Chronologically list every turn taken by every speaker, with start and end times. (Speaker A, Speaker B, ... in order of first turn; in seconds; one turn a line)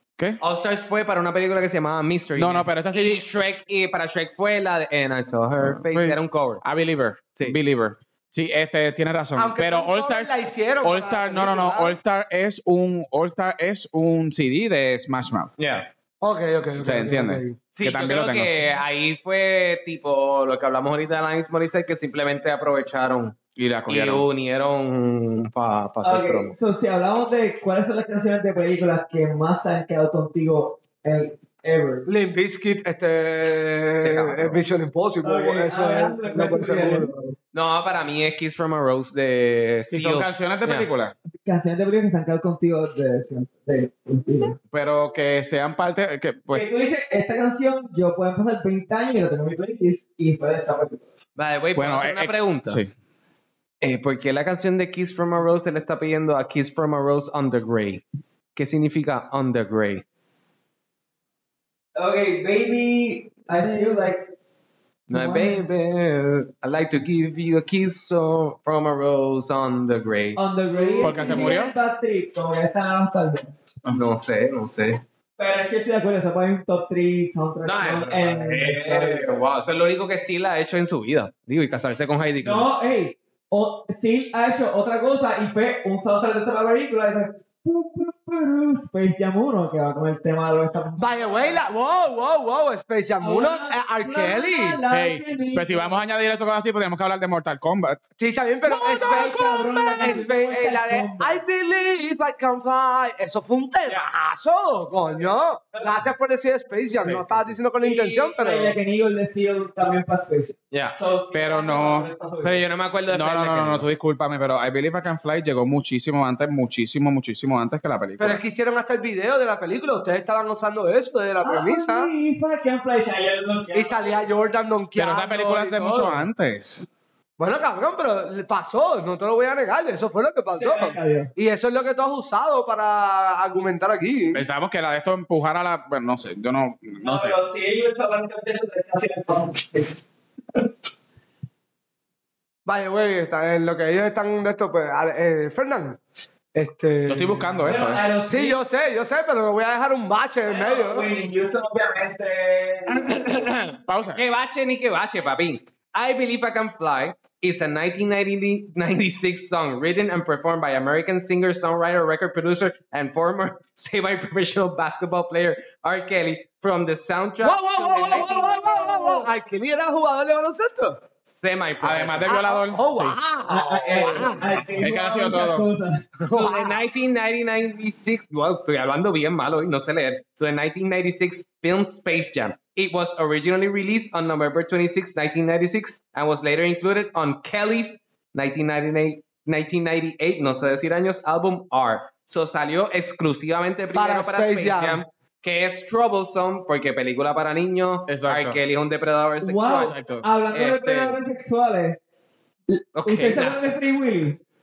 Speaker A: 0.4-6.6
Speaker B: 2.4-3.2
Speaker B: 5.6-15.5
Speaker C: 9.3-11.9
Speaker A: 15.6-15.9
Speaker C: 16.2-17.6
Speaker B: 16.8-18.5
Speaker A: 17.7-26.5
Speaker B: 23.6-24.3
Speaker D: 26.0-32.1
Speaker C: 32.0-37.1
Speaker A: 33.9-34.6
Speaker D: 35.2-37.3
Speaker A: 37.5-40.9
Speaker B: 39.9-41.1
Speaker D: 41.4-44.6
Speaker B: 44.7-46.6
Speaker D: 46.5-51.0
Speaker A: 51.4-52.8
Speaker B: 51.7-52.9
Speaker A: 53.8-58.0
Speaker A: 58.5-60.0
Speaker D: 62.0-64.3
Speaker A: 65.1-71.5
Speaker D: 65.1-65.7
Speaker D: 70.3-73.5
Speaker B: 71.0-71.7
Speaker A: 73.9-75.0
Speaker D: 75.4-79.3
Speaker A: 77.6-82.7
Speaker D: 82.4-91.6
Speaker C: 91.0-94.8
Speaker D: 93.2-96.0
Speaker B: 94.9-98.0
Speaker C: 98.2-108.8
Speaker D: 98.7-101.4
Speaker D: 105.0-106.0
Speaker A: 107.0-107.6
Speaker D: 107.8-112.7
Speaker B: 111.3-112.1
Speaker A: 112.4-113.9
Speaker B: 113.1-118.4
Speaker C: 118.2-122.1
Speaker D: 121.4-124.3
Speaker C: 123.7-126.2
Speaker B: 125.0-126.8
Speaker C: 127.4-134.4
Speaker D: 130.6-131.3
Speaker B: 134.3-137.3
Speaker D: 137.0-140.1
Speaker C: 142.7-146.0
Speaker C: 146.5-151.1
Speaker B: 147.1-148.0
Speaker D: 147.7-148.6
Speaker D: 150.4-153.4
Speaker A: 152.9-169.2
Speaker B: 153.9-154.2
Speaker C: 167.4-171.0
Speaker D: 168.1-168.7
Speaker A: 171.2-172.3
Speaker B: 171.8-173.2
Speaker C: 172.3-174.5
Speaker D: 173.5-176.0
Speaker A: 173.5-174.6
Speaker B: 174.8-175.7
Speaker C: 176.2-176.8
Speaker A: 176.3-199.9
Speaker C: 193.9-195.0
Speaker B: 198.1-198.6
Speaker D: 199.4-202.0
Speaker B: 199.8-200.2
Speaker A: 200.5-201.2
Speaker D: 202.7-204.4
Speaker A: 203.0-203.6